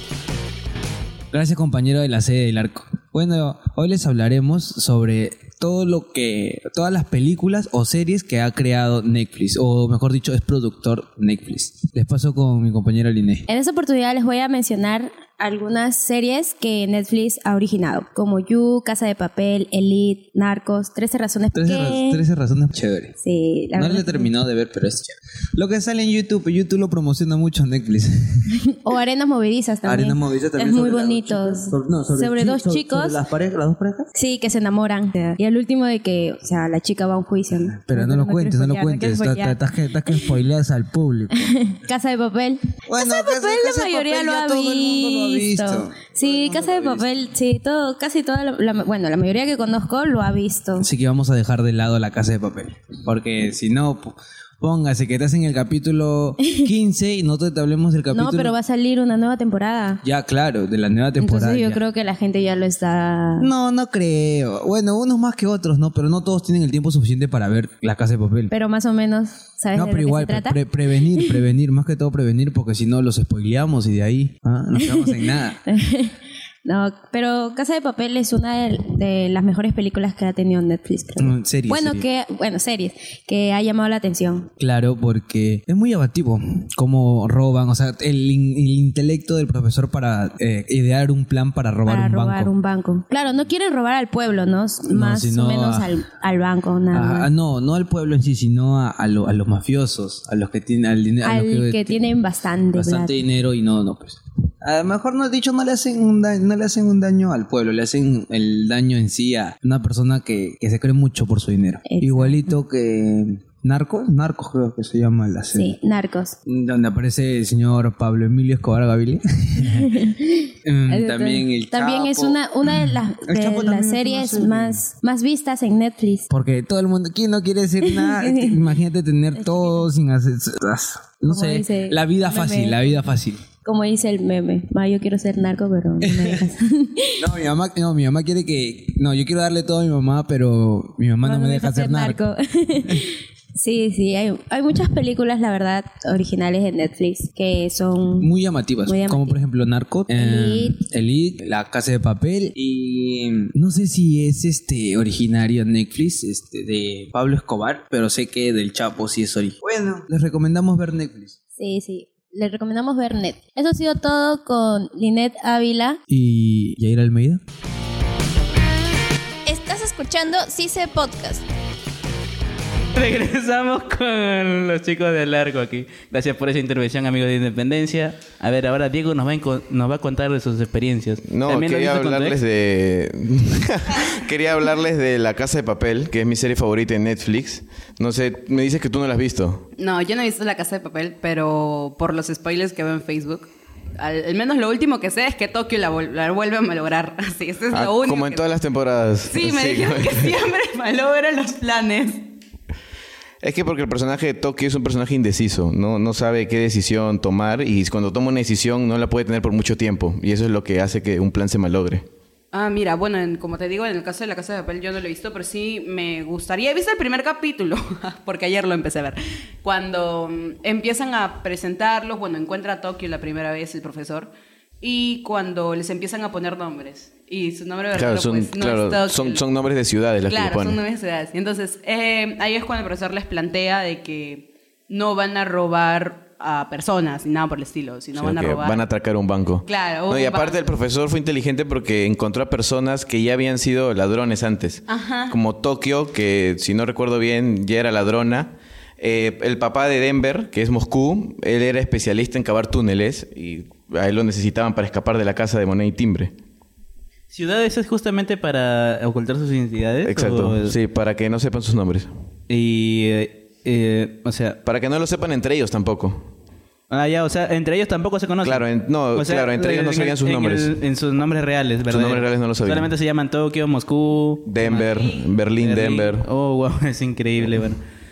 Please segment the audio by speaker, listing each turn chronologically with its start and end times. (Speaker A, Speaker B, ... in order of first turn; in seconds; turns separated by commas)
Speaker A: 1.3-13.5, Speaker B: 13.5-22.2, Speaker A: 21.5-23.1, Speaker B: 23.2-24.3, Speaker A: 23.8-28.5, Speaker B: 28.6-33.2, Speaker A: 29.8-34.1, Speaker B: 34.2-40.3, Speaker A: 37.7-41.7, Speaker B: 41.4-50.9, Speaker A: 42.9-47.1, Speaker A: 50.8-58.5, Speaker B: 58.1-60.0, Speaker A: 60.0-61.8, Speaker B: 61.2-63.5, Speaker A: 63.4-68.5, Speaker B: 68.5-70.6, Speaker A: 69.7-75.6, Speaker B: 71.1-71.4, Speaker B: 74.8-75.1, Speaker B: 75.7-84.5, Speaker A: 81.2-82.0, Speaker A: 84.6-92.5, Speaker B: 91.9-97.3, Speaker A: 94.9-96.0, Speaker A: 96.9-102.1, Speaker B: 101.2-103.2, Speaker A: 102.7-115.8, Speaker B: 111.9-112.5, Speaker B: 115.5-116.4, Speaker A: 116.5-120.1, Speaker B: 119.8-126.3, Speaker A: 120.6-124.8, Speaker A: 126.3-133.4, Speaker B: 127.9-128.6, Speaker B: 129.4-129.9, Speaker B: 131.3-133.0, Speaker B: 133.6-137.2, Speaker A: 136.0-136.5, Speaker A: 137.2-142.2, Speaker B: 141.2-148.3, Speaker A: 148.2-161.4, Speaker B: 148.9-149.4, Speaker B: 150.1-150.8, Speaker B: 161.6-166.0, Speaker A: 166.1-167.4, Speaker C: 169.5-171.5, Speaker D: 172.9-182.4, Speaker E: 181.3-189.7, Speaker F: 189.8-198.5, Speaker E: 197.7-200.4, Speaker F: 199.3-202.3, Speaker E: 203.4-212.1, Speaker F: 212.5-229.4, Speaker E: 227.9-230.8, Speaker F: 230.3-238.8, Speaker E: 238.2-256.3, Speaker F: 239.7-240.6, Speaker F: 244.9-245.4, Speaker D: 257.3-260.8, Speaker E: 260.1-262.1, Speaker D: 262.5-264.6, Speaker E: 264.6-266.3, Speaker D: 266.9-277.8, Speaker E: 268.4-270.7, Speaker E: 271.9-272.9, Speaker E: 274.5-276.2